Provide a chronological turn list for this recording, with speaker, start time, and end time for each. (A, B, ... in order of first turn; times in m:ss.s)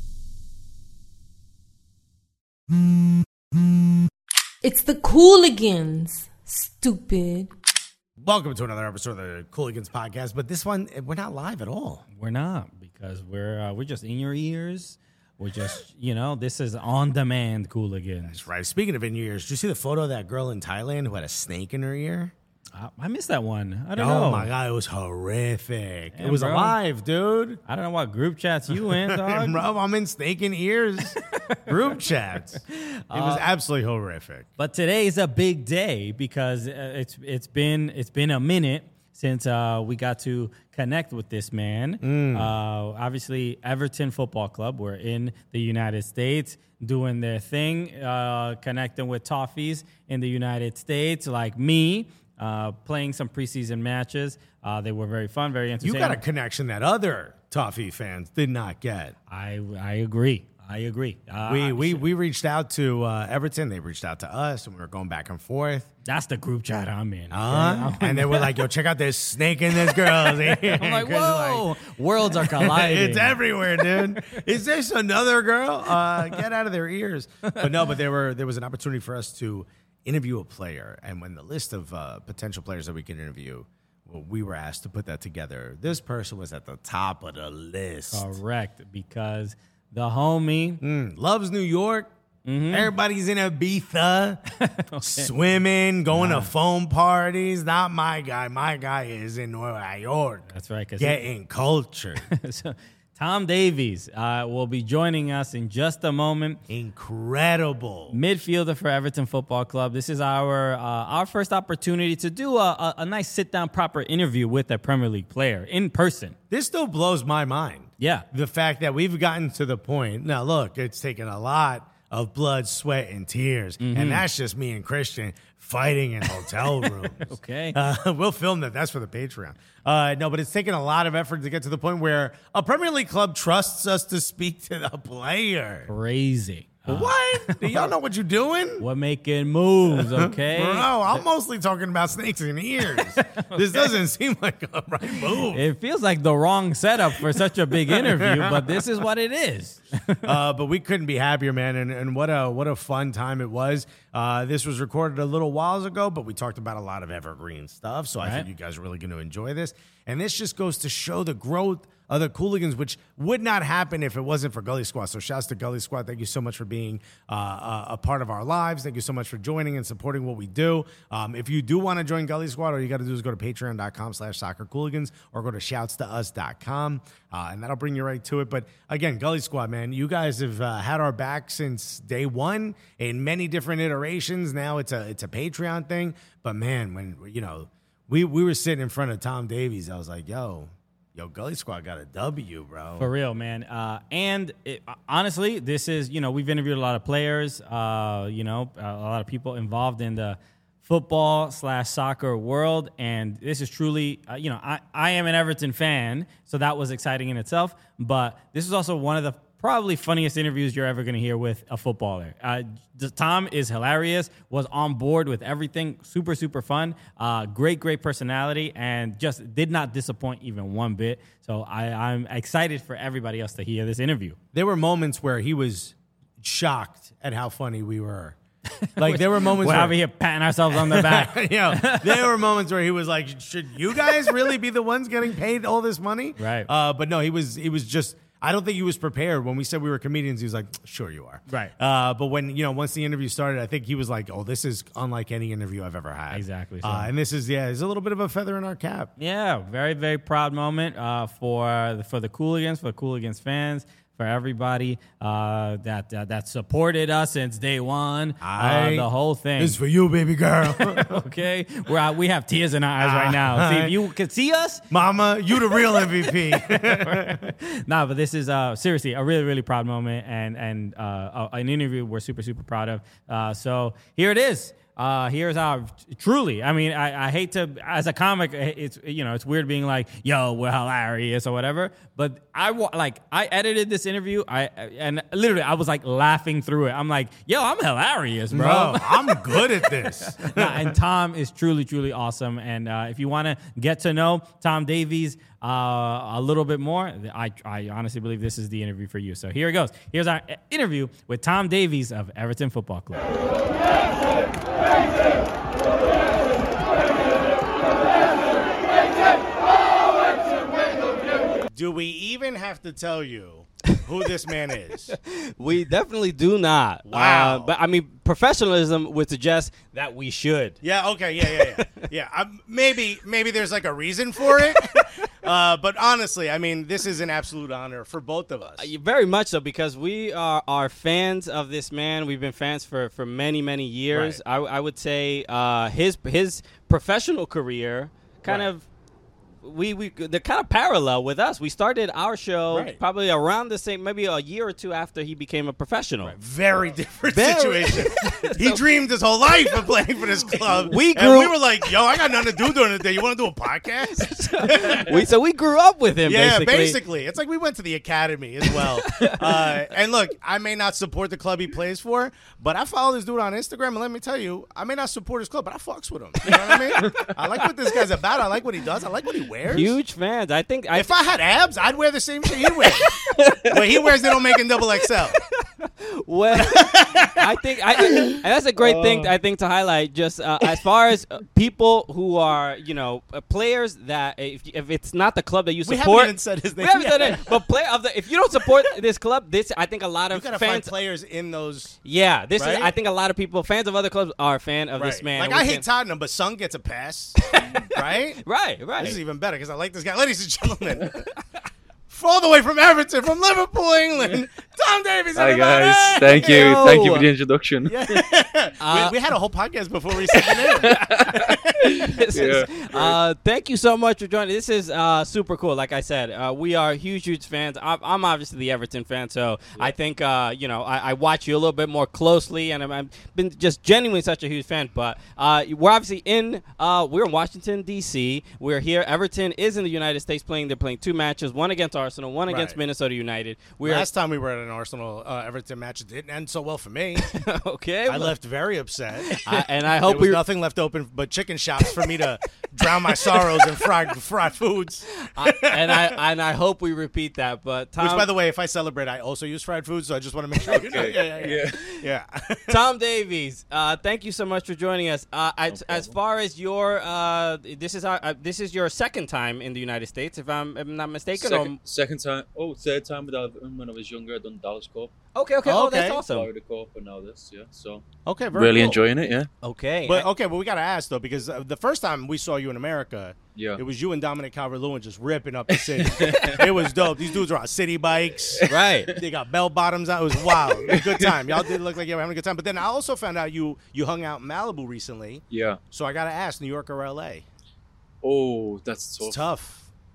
0:04.6-0:07.5 A
0:08.2-0:12.0 B
0:12.2-0:18.4 C
0:18.3-0:22.3 B
0:22.7-0:24.5 C
0:24.0-0:27.6 B
0:26.1-0:26.8 C
0:27.7-0:29.6 C
0:28.7-0:34.5 B
0:31.3-0:31.9 C
0:32.7-0:33.4 C
0:34.6-0:56.2 C
0:42.0-0:42.5 B
0:55.8-0:59.1 B
0:59.3-1:02.0 C
1:01.5-1:05.9 B
1:06.1-1:08.6 C
1:07.3-1:11.7 B
1:09.9-1:14.1 C
1:12.3-1:28.4 B
1:28.1-1:30.8 C
1:30.8-1:32.1 B
1:32.4-1:32.9 C
1:32.7-1:34.4 B
1:34.6-1:35.3 C
1:35.0-1:42.3 B
1:36.1-1:36.5 C
1:40.5-1:41.2 C
1:42.2-1:46.6 C
1:46.7-1:48.2 B
1:48.1-1:56.4 C
1:56.5-2:15.9 B
1:58.0-1:58.2 C
2:03.8-2:04.2 C
2:06.6-2:07.8 C
2:15.9-2:17.9 C
2:16.9-2:18.8 B
2:18.8-2:21.2 C
2:19.9-2:25.6 B
2:23.0-2:23.9 C
2:25.5-2:30.3 C
2:27.1-2:28.9 B
2:30.2-3:13.1 B
2:38.2-2:38.5 C
3:13.0-3:44.4 C
3:44.5-3:48.4 B
3:48.8-3:52.3 C
3:49.0-3:50.0 B
3:50.7-4:09.1 B
3:56.4-3:56.7 C
4:06.3-4:07.1 C
4:09.2-4:19.8 C
4:18.4-4:19.1 B
4:19.6-4:21.2 B
4:20.7-4:24.8 C
4:23.0-4:23.9 B
4:24.9-4:27.5 B
4:26.5-5:03.3 C
4:48.5-4:51.0 B
5:11.7-5:15.1 B
5:15.1-5:20.8 D
5:17.1-5:17.7 B
5:20.8-5:28.9 B
5:21.5-5:22.1 D
5:28.8-5:38.9 D
5:34.1-5:34.4 B
5:39.6-5:46.3 D
5:42.7-5:43.0 B
5:46.3-5:55.2 B
5:47.3-5:48.8 D
5:50.7-5:51.6 D
5:54.1-5:57.0 D
5:56.2-6:10.0 B
6:06.4-6:07.0 D
6:07.0-6:07.3 E
6:09.6-6:11.1 D
6:10.9-6:15.4 B
6:15.6-6:30.9 D
6:16.5-6:17.5 B
6:18.3-6:19.3 E
6:25.8-6:27.6 B
6:30.3-6:32.0 B
6:32.0-6:35.8 D
6:32.6-6:32.9 B
6:35.0-6:38.4 B
6:37.4-6:39.2 D
6:39.0-6:41.3 B
6:42.1-6:47.1 B
6:45.3-6:48.2 E
6:46.4-6:47.3 D
6:47.8-6:52.5 B
6:48.8-6:49.2 D
6:50.8-6:53.2 E
6:52.0-7:14.1 D
7:12.5-7:12.8 B
7:13.8-7:17.3 B
7:17.2-7:18.3 D
7:18.1-7:26.2 B
7:19.3-7:20.4 D
7:25.1-7:28.3 D
7:28.0-7:32.8 B
7:30.6-7:31.8 E
7:32.7-7:41.8 D
7:35.7-7:36.2 E
7:41.3-7:45.1 E
7:45.3-7:46.5 D
7:45.6-7:46.2 B
7:46.3-7:49.5 E
7:48.2-7:49.0 B
7:49.6-7:50.3 D
7:50.0-8:07.4 B
7:53.5-7:53.8 E
7:55.7-7:56.7 E
7:58.6-7:59.0 E
7:58.7-7:59.1 D
8:00.5-8:01.6 E
8:05.5-8:05.8 E
8:08.2-8:09.4 E
8:09.2-8:09.9 B